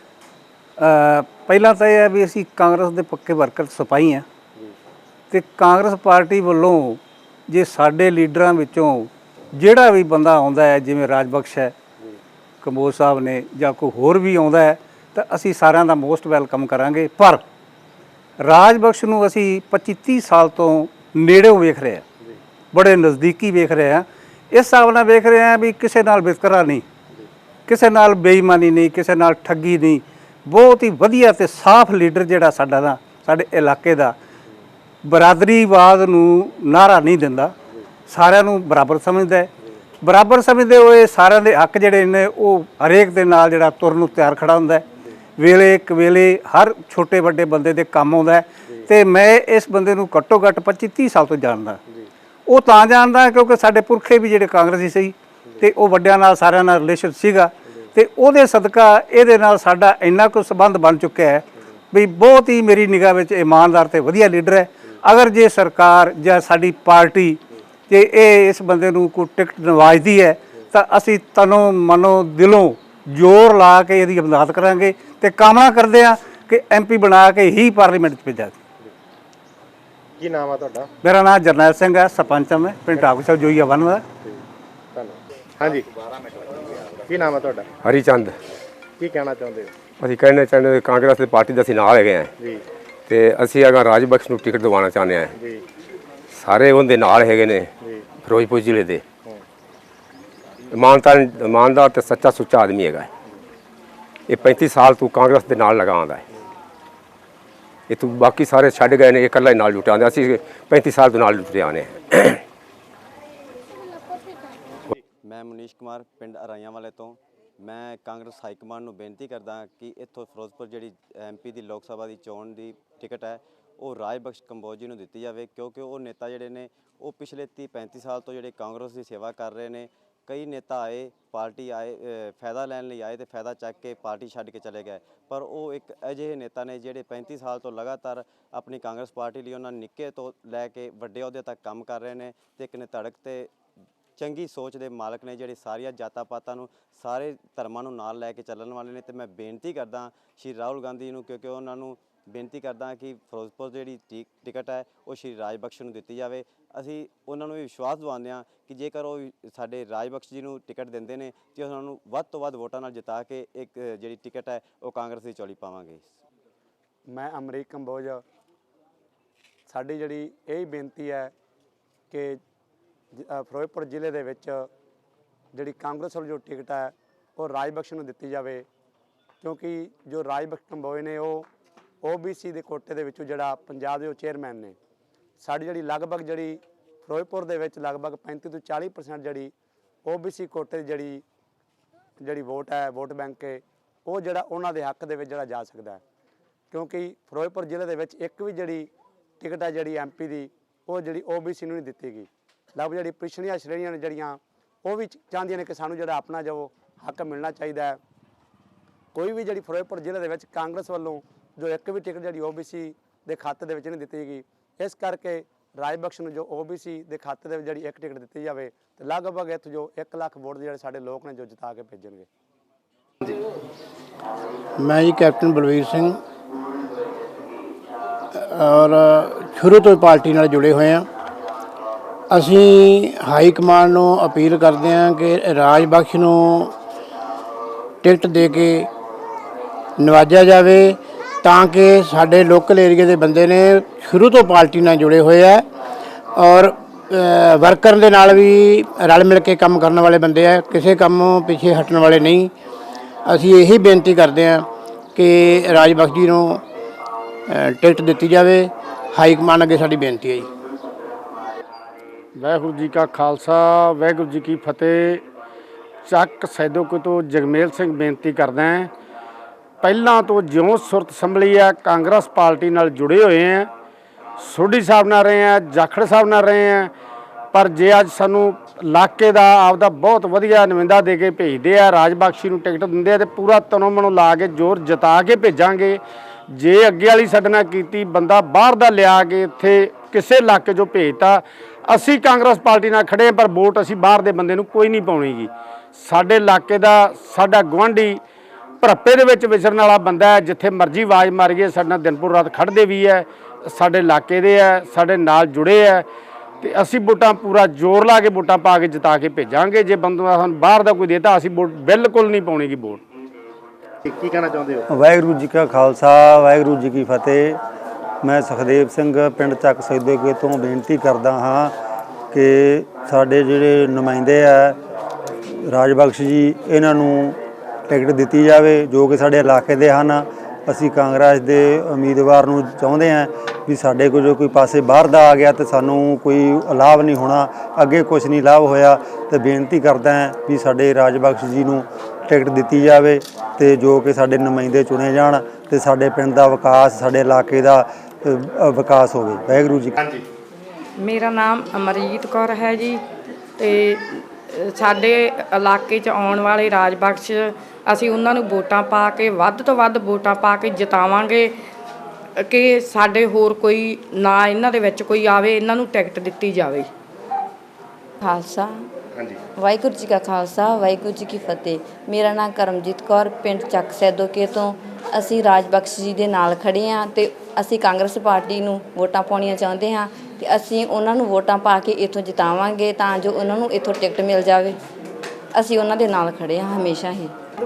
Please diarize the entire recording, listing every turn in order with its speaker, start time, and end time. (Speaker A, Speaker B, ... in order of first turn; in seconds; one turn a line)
Speaker A: 0.8-4.2
Speaker A: 5.3-11.7
Speaker A: 12.6-17.4
Speaker A: 18.4-22.0
Speaker A: 22.7-26.8
Speaker A: 27.7-34.1
Speaker A: 35.0-37.5
Speaker A: 38.1-39.5
Speaker A: 40.0-44.9
Speaker A: 45.4-51.8
Speaker A: 52.5-78.6
Speaker B: 80.2-80.8
Speaker A: 81.0-84.0
Speaker B: 87.1-87.6
Speaker C: 87.8-88.4
Speaker B: 89.1-89.7
Speaker C: 90.0-92.3
Speaker C: 93.1-95.3
Speaker C: 96.3-97.7
Speaker C: 98.2-99.0
Speaker C: 100.7-103.1
Speaker C: 104.3-106.2
Speaker C: 107.9-112.4
Speaker D: 115.2-143.5
Speaker D: 144.2-166.1
Speaker E: 167.1-168.2
Speaker E: 169.7-171.3
Speaker E: 172.1-172.4
Speaker E: 173.2-174.7
Speaker E: 175.5-178.7
Speaker E: 179.4-181.5
Speaker E: 182.0-184.8
Speaker E: 185.4-189.5
Speaker E: 190.0-191.2
Speaker E: 192.2-196.0
Speaker E: 196.7-208.0
Speaker E: 209.1-222.3
Speaker F: 224.9-226.1
Speaker F: 228.6-231.0
Speaker F: 232.4-236.4
Speaker F: 238.1-238.8
Speaker F: 240.1-240.9
Speaker F: 241.5-245.6
Speaker F: 247.5-252.5
Speaker F: 253.3-254.6
Speaker F: 255.2-256.5
Speaker F: 257.8-258.6
Speaker F: 259.2-260.3
Speaker G: 262.4-265.2
Speaker G: 266.1-268.9
Speaker G: 269.8-273.7
Speaker G: 274.4-276.9
Speaker G: 277.5-298.2
Speaker G: 298.8-306.1
Speaker G: 306.6-313.0
Speaker B: 314.1-314.8
Speaker H: 314.9-317.6
Speaker H: 318.2-321.7
Speaker H: 322.3-324.8
Speaker H: 325.7-327.4
Speaker H: 327.9-350.0
Speaker I: 351.0-353.0
Speaker I: 353.6-361.5
Speaker I: 362.4-366.9
Speaker J: 368.2-368.7
Speaker J: 369.6-384.8
Speaker J: 385.6-387.3